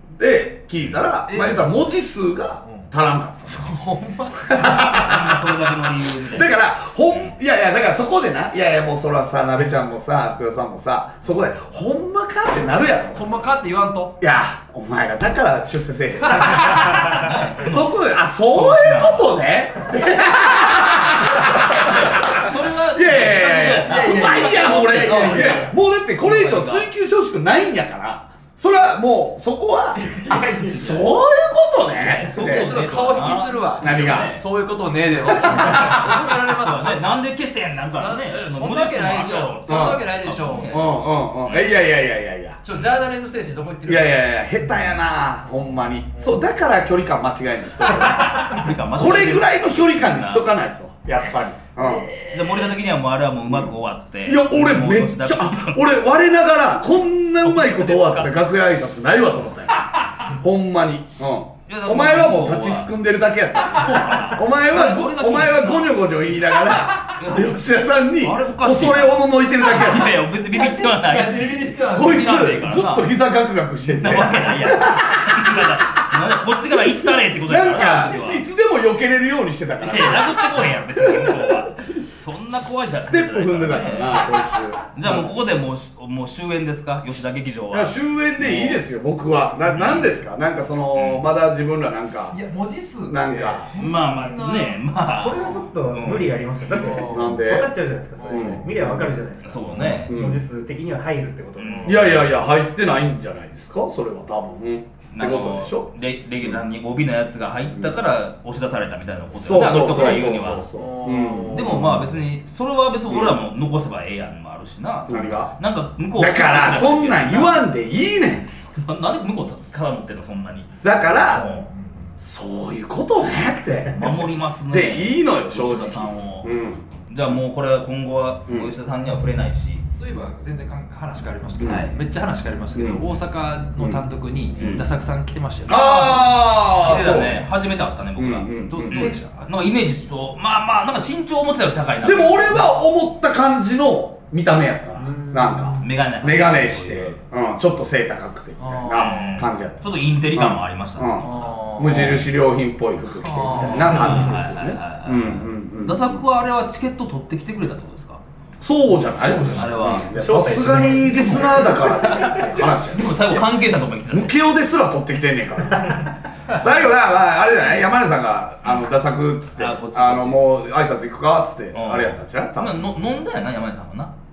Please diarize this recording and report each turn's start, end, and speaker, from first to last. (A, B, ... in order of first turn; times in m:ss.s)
0:00.2-0:03.6 A
0:01.3-0:01.8 B
0:02.6-0:02.9 B
0:03.4-0:04.6 B
0:04.5-0:05.5 A
0:04.6-0:06.5 C
0:06.1-0:13.4 A
0:13.1-0:14.2 B
0:14.2-0:32.7 A
0:16.4-0:19.4 C
0:21.4-0:26.9 C
0:23.8-0:25.7 B
0:30.1-0:30.9 B
0:32.0-0:34.4 C
0:32.3-0:37.1 B
0:33.8-0:34.4 A
0:35.2-0:36.0 A
0:35.5-0:41.9 C
0:38.0-0:41.0 B
0:39.7-0:40.0 A
0:40.7-0:42.6 A
0:42.6-0:44.3 B
0:43.8-0:52.1 A
0:48.0-0:50.5 C
0:51.8-0:55.8 C
0:54.2-1:10.2 A
0:57.4-0:58.4 C
1:01.7-1:02.9 C
1:03.6-1:07.6 C
1:08.2-1:13.1 C
1:10.5-1:12.5 B
1:11.9-1:15.4 A
1:13.8-1:18.4 C
1:17.4-1:21.6 A
1:19.8-1:24.3 C
1:23.0-1:25.3 A
1:24.9-1:28.8 C
1:27.7-1:32.4 A
1:29.7-1:30.1 C
1:30.9-1:31.2 C
1:32.3-1:34.8 B
1:33.1-1:33.7 A
1:33.8-1:36.4 C
1:35.1-1:41.8 D
1:36.7-1:37.4 B
1:37.0-1:37.7 A
1:38.2-1:38.7 B
1:38.3-1:39.2 A
1:39.4-1:40.2 C
1:40.0-1:40.4 A
1:41.6-1:42.2 C
1:41.7-1:42.1 B
1:41.8-1:45.9 A
1:45.1-1:50.7 C
1:49.3-1:52.1 A
1:50.7-1:51.8 B
1:51.5-1:57.6 C
1:53.1-1:53.4 A
1:55.1-1:55.5 A
1:56.2-1:58.5 A
1:58.8-2:01.7 C
2:00.8-2:01.5 A
2:01.6-2:02.1 B
2:02.2-2:06.9 A
2:03.9-2:06.6 C
2:07.1-2:09.8 C
2:09.9-2:16.3 B
2:11.6-2:11.9 A
2:11.6-2:12.0 C
2:12.7-2:13.0 A
2:15.7-2:17.4 A
2:15.7-2:22.7 C
2:18.2-2:19.1 A
2:18.7-2:19.6 B
2:22.0-2:36.2 A
2:25.8-2:27.2 C
2:28.6-2:29.5 B
2:28.9-2:31.3 C
2:31.2-2:32.2 B
2:33.2-2:34.4 B
2:33.6-2:38.2 C
2:38.6-2:43.5 A
2:39.0-2:40.0 B
2:39.3-2:40.1 C
2:40.2-2:41.8 D
2:42.2-2:44.4 C
2:44.1-2:52.8 A
2:49.6-2:50.5 C
2:51.7-2:54.1 C